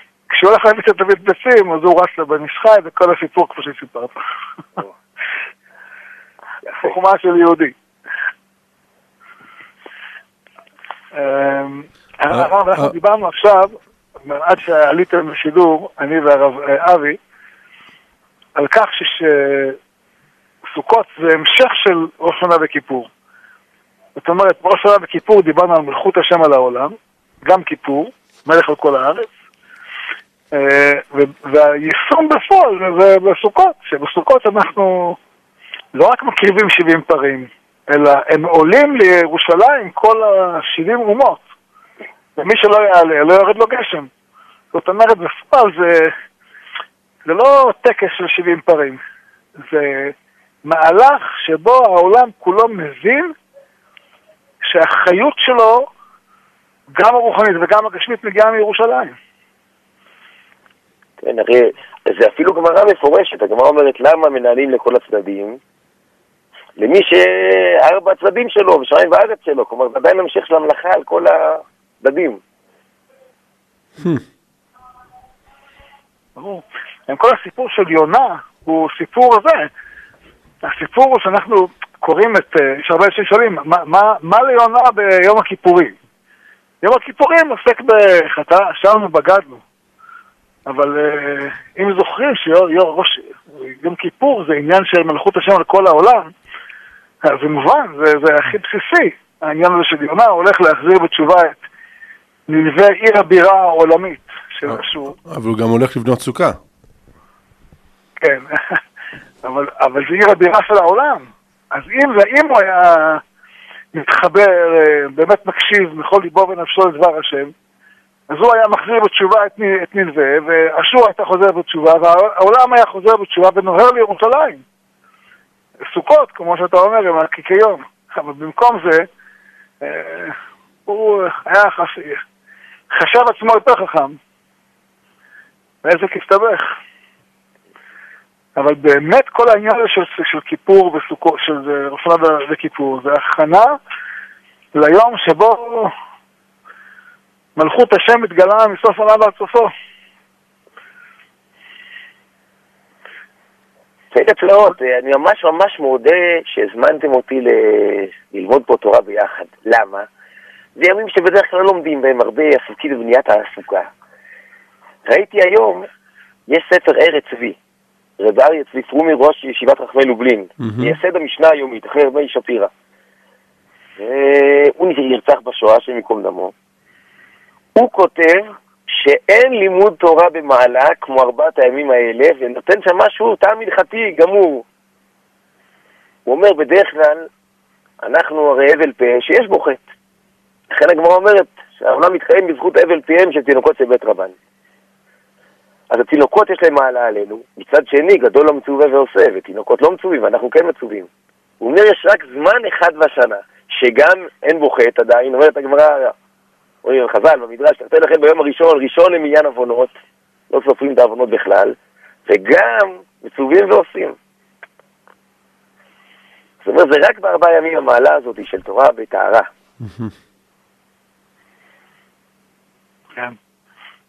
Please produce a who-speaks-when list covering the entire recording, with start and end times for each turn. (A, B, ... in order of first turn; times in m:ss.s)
0:00.3-0:04.2 A
0:06.8-0:07.7 A
0:11.1-0:17.2 A
0:12.3-0:12.9 B
0:18.6-0:19.8 A
0:20.7-0:23.1 A
0:24.2-0:29.3 A
0:30.5-0:35.2 A
0:35.9-0:41.4 A
0:42.4-0:44.1 A
0:44.7-0:46.1 A
0:47.2-0:49.0 A
0:49.6-0:50.1 A
0:50.6-0:53.3 A
0:54.6-0:55.9 A
0:56.9-0:59.2 A
1:01.2-1:05.6 C
1:06.8-1:12.4 C
1:16.4-1:19.7 A
1:20.6-1:25.9 A
1:26.8-1:29.6 A
1:30.7-1:36.3 A
1:37.2-1:41.6 A
1:42.5-1:45.1 A
1:44.6-1:46.6 B
1:48.2-1:48.8 A
1:49.4-1:53.2 A
1:53.9-1:57.5 A
1:58.3-2:04.6 A
2:05.9-2:09.1 A
2:09.8-2:10.3 A
2:10.8-2:12.2 A
2:12.9-2:14.2 A
2:15.8-2:16.7 A
2:18.6-2:23.8 A
2:24.7-2:25.9 A
2:27.6-2:29.7 A
2:34.1-2:40.1 C
2:40.8-2:43.9 C
2:45.0-2:45.8 C
2:46.5-2:47.6 C
2:48.2-2:52.7 C
2:50.6-2:51.0 B
2:54.0-2:56.5 C
2:57.8-3:04.6 C
3:06.2-3:07.3 C
3:08.0-3:09.9 C
3:10.7-3:14.4 C
3:15.9-3:21.1 C
3:21.6-3:26.1 C
3:26.8-3:29.9 C
3:30.5-3:34.2 C
3:36.6-3:39.5 C
3:39.8-3:40.1 B